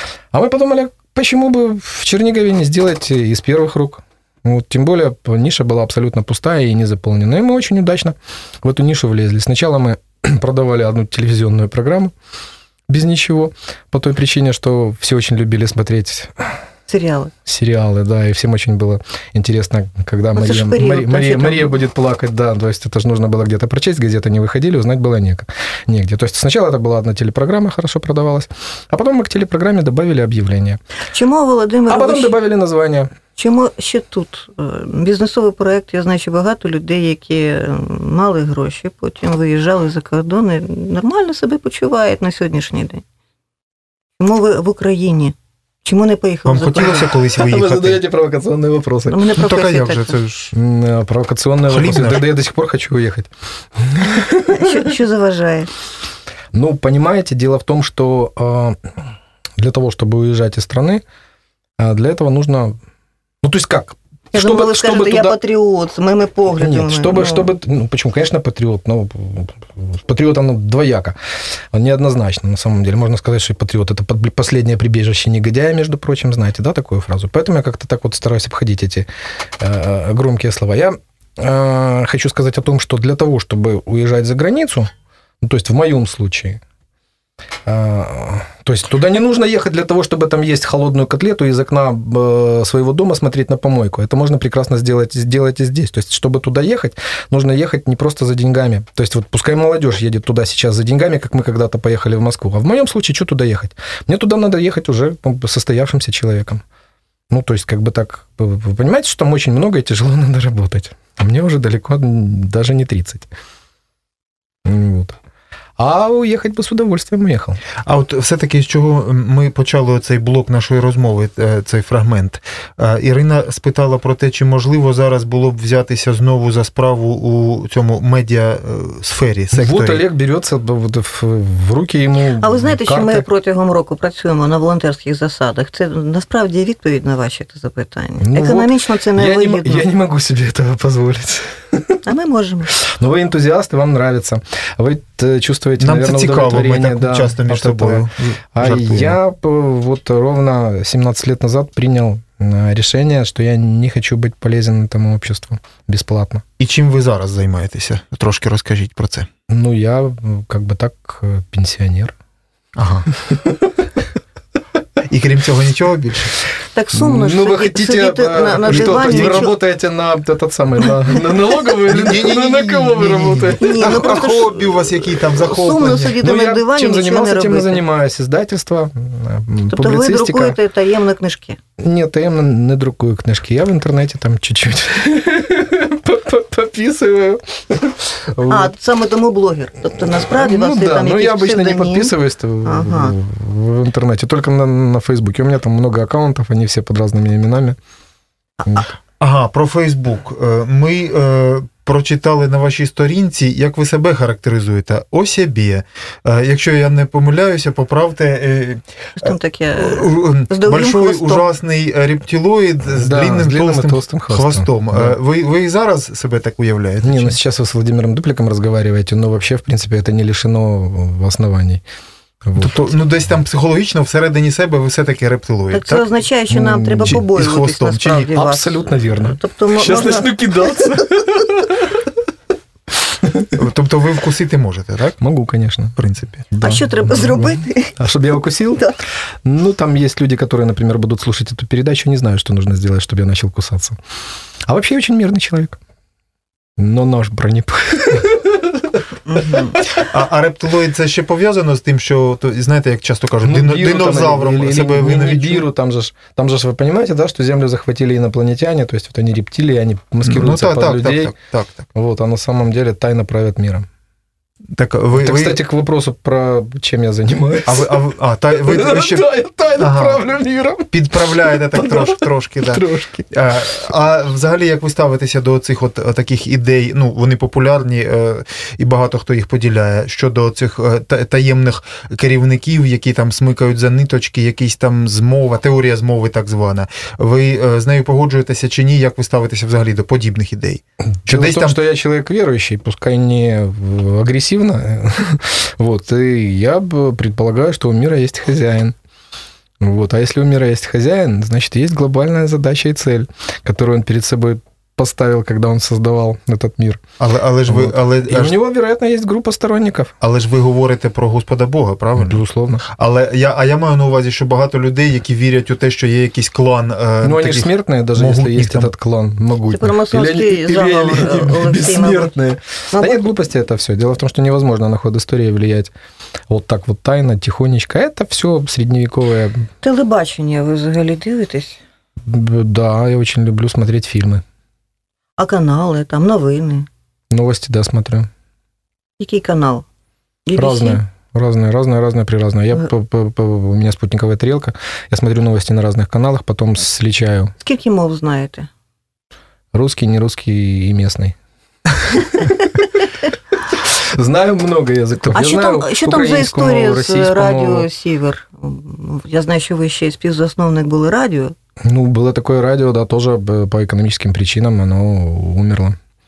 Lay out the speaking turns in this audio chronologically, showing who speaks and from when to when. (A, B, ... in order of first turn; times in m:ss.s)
0:00.3-0:12.1 A
0:12.9-0:16.5 A
0:16.9-0:17.3 B
0:17.5-0:30.8 A
0:20.4-0:21.7 B
0:31.1-0:32.3 B
0:31.9-0:33.1 A
0:33.4-0:43.0 B
0:44.2-0:47.1 B
0:46.5-0:48.0 C
0:47.4-0:49.3 A
0:49.1-0:50.2 B
0:49.4-0:50.5 C
0:50.5-0:54.9 A
0:51.7-0:52.3 C
0:54.5-0:55.7 B
0:56.5-0:58.9 A
0:59.6-1:01.0 A
1:01.8-1:02.8 A
1:03.4-1:05.4 A
1:04.3-1:07.5 B
1:06.6-1:11.2 A
1:11.7-1:19.1 A
1:19.6-1:24.9 A
1:25.4-1:26.6 A
1:27.7-1:46.6 A
1:47.3-1:53.3 A
1:54.6-1:55.2 A
1:55.8-1:57.6 A
1:57.8-2:10.0 C
2:09.5-2:13.3 A
2:12.4-2:19.8 B
2:18.2-2:22.0 A
2:22.0-2:22.7 B
2:22.8-2:36.4 A
2:25.8-2:29.2 C
2:36.6-2:39.3 C
2:39.5-2:42.1 A
2:42.8-2:43.1 C
2:43.2-2:43.7 A
2:45.1-2:46.4 C
2:46.8-2:49.5 B
2:46.9-2:54.3 A
2:48.7-2:49.5 C
2:51.8-2:56.2 C
2:53.6-2:57.8 B
2:55.8-3:00.6 A
2:59.7-3:01.6 B
3:01.8-3:08.7 A
3:08.5-3:12.1 B
3:10.1-3:17.8 A
3:12.6-3:13.2 B
3:19.2-3:37.4 C
3:29.2-3:31.5 B
3:32.9-3:35.2 A
3:37.0-3:41.8 A
3:42.4-3:42.9 A
3:42.6-3:46.1 C
3:45.7-3:51.2 B
3:46.5-3:52.0 A
3:47.1-3:48.1 C
3:53.1-3:53.6 A
3:53.6-3:55.2 C
3:55.2-3:56.0 A
3:56.0-3:56.5 C
3:56.5-3:58.9 A
3:56.6-3:58.0 B
3:59.4-4:04.0 A
4:04.7-4:05.8 A
4:06.8-4:09.8 A
4:09.3-4:09.8 B
4:09.9-4:15.7 C
4:13.4-4:21.3 A
4:20.2-4:21.9 C
4:22.0-4:23.9 A
4:24.8-4:25.6 C
4:25.2-4:28.0 A
4:27.6-4:30.2 C
4:28.6-4:33.3 A
4:30.9-4:51.8 C
4:51.2-4:59.0 A
4:59.8-5:07.0 A
5:07.2-5:08.6 C
5:07.7-5:10.1 A
5:10.2-5:18.9 C
5:12.2-5:12.8 A
5:17.2-5:25.9 A
5:19.7-5:22.3 B
5:22.9-5:23.3 B
5:26.5-5:29.7 A
5:29.8-5:31.8 B
5:32.2-5:34.4 A
5:35.4-5:36.9 B
5:37.3-5:38.3 A
5:39.2-5:39.8 B
5:40.5-5:41.0 B
5:40.6-5:47.5 A
5:47.6-5:48.7 B
5:49.7-5:51.4 A
5:52.0-5:52.7 A
5:53.7-5:57.9 A
5:55.3-6:01.5 B
6:01.8-6:06.0 A